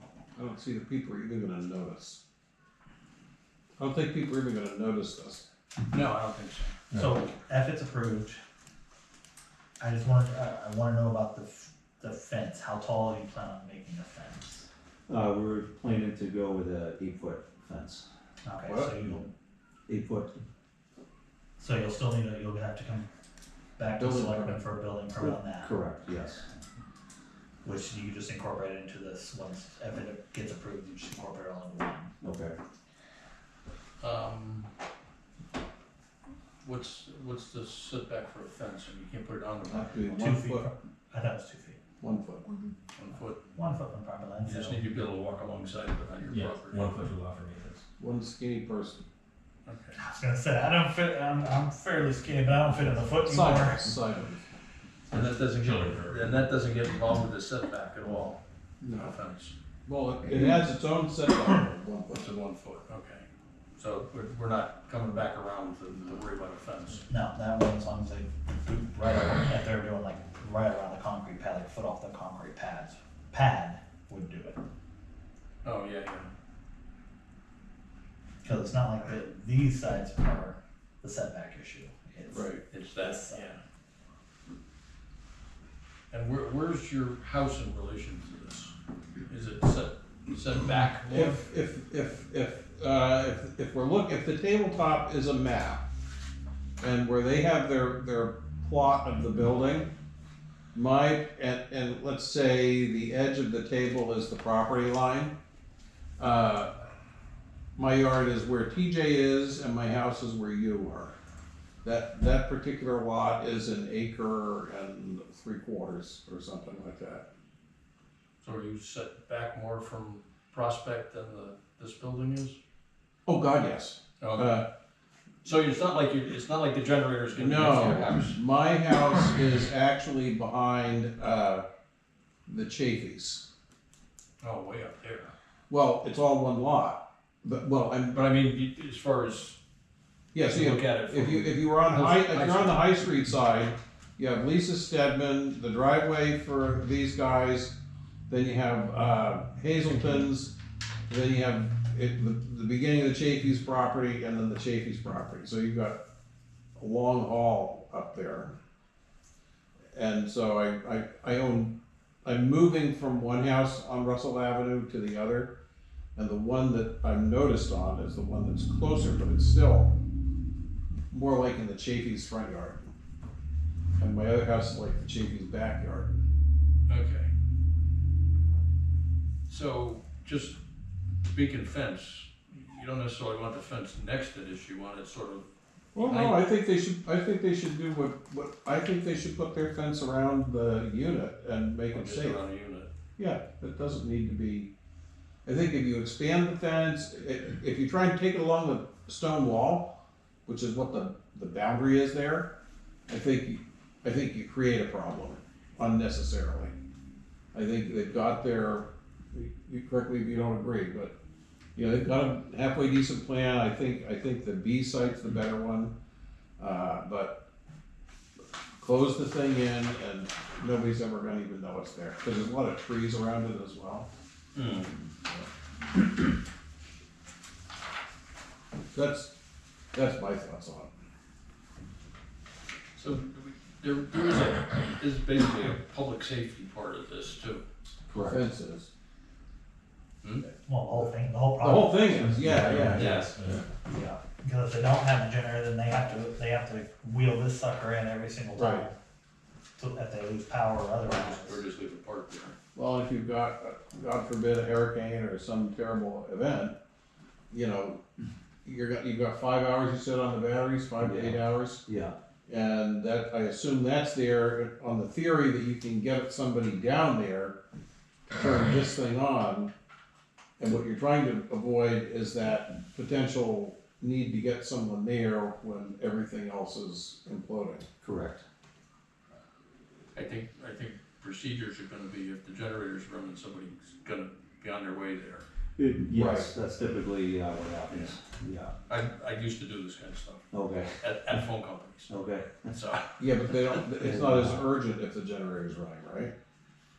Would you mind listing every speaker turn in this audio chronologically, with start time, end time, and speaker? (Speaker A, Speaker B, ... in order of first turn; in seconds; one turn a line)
Speaker A: 0.3-2.2
Speaker A: 3.8-5.4
Speaker B: 5.9-6.8
Speaker C: 6.9-8.4
Speaker C: 9.8-14.7
Speaker D: 15.1-18.1
Speaker C: 18.4-19.3
Speaker A: 18.6-18.9
Speaker D: 19.9-20.4
Speaker C: 21.6-23.1
Speaker C: 23.8-25.7
Speaker A: 24.0-24.6
Speaker D: 25.2-26.5
Speaker C: 27.6-32.1
Speaker D: 32.2-32.6
Speaker B: 34.0-34.7
Speaker B: 36.6-40.3
Speaker A: 39.7-40.7
Speaker C: 40.2-41.8
Speaker A: 42.0-42.5
Speaker B: 43.0-43.4
Speaker C: 43.5-44.9
Speaker B: 44.4-47.0
Speaker E: 46.3-47.8
Speaker A: 48.0-49.0
Speaker B: 49.7-50.0
Speaker C: 50.0-54.0
Speaker A: 53.1-54.4
Speaker B: 55.1-58.4
Speaker E: 55.1-56.4
Speaker A: 58.8-59.2
Speaker B: 59.0-59.5
Speaker A: 59.9-62.5
Speaker B: 62.2-63.3
Speaker B: 63.8-67.0
Speaker C: 67.1-74.6
Speaker B: 75.6-76.3
Speaker C: 78.4-83.5
Speaker A: 82.3-82.6
Speaker B: 82.7-83.6
Speaker B: 86.1-88.8
Speaker B: 89.3-91.4
Speaker A: 91.1-95.8
Speaker A: 96.8-99.9
Speaker A: 100.7-105.3
Speaker A: 106.2-106.9
Speaker A: 107.8-111.2
Speaker A: 111.8-117.3
Speaker B: 118.4-122.6
Speaker A: 123.3-124.7
Speaker B: 124.2-124.6
Speaker B: 125.4-128.4
Speaker A: 127.4-131.7
Speaker A: 132.5-133.4
Speaker B: 134.4-135.3
Speaker A: 135.7-138.2
Speaker B: 138.1-139.6
Speaker A: 140.3-147.7
Speaker B: 140.5-143.0
Speaker A: 148.3-150.5
Speaker A: 151.1-156.0
Speaker A: 156.8-158.6
Speaker A: 159.9-165.5
Speaker A: 166.2-169.9
Speaker A: 171.1-172.9
Speaker A: 174.0-176.2
Speaker B: 176.9-177.3
Speaker B: 179.5-180.6
Speaker B: 181.2-185.5
Speaker A: 185.9-192.4
Speaker B: 186.0-186.5
Speaker B: 191.9-192.9
Speaker A: 193.2-194.7
Speaker A: 195.5-199.9
Speaker A: 200.5-202.5
Speaker A: 203.1-206.7
Speaker A: 207.5-211.1
Speaker A: 211.8-215.9
Speaker A: 216.6-217.4
Speaker A: 218.8-224.1
Speaker B: 224.6-225.0
Speaker A: 228.9-229.3
Speaker A: 229.9-230.9
Speaker B: 232.9-237.6
Speaker D: 238.1-238.4
Speaker A: 238.1-238.9
Speaker C: 240.6-243.0
Speaker A: 241.6-243.3
Speaker E: 242.3-243.6
Speaker D: 242.8-243.3
Speaker B: 242.9-243.3
Speaker C: 243.8-249.0
Speaker A: 248.6-248.9
Speaker C: 249.8-251.6
Speaker B: 251.1-252.6
Speaker A: 252.8-256.8
Speaker A: 257.5-258.0
Speaker A: 258.6-261.8
Speaker D: 261.0-262.2
Speaker A: 262.5-267.6
Speaker A: 268.3-269.7
Speaker A: 270.6-277.9
Speaker D: 278.0-278.4
Speaker B: 280.1-285.4
Speaker D: 285.8-288.7
Speaker A: 286.1-286.5
Speaker B: 288.9-290.4
Speaker D: 290.5-291.0
Speaker B: 291.0-293.8
Speaker D: 292.1-292.7
Speaker A: 293.2-296.3
Speaker D: 294.0-294.6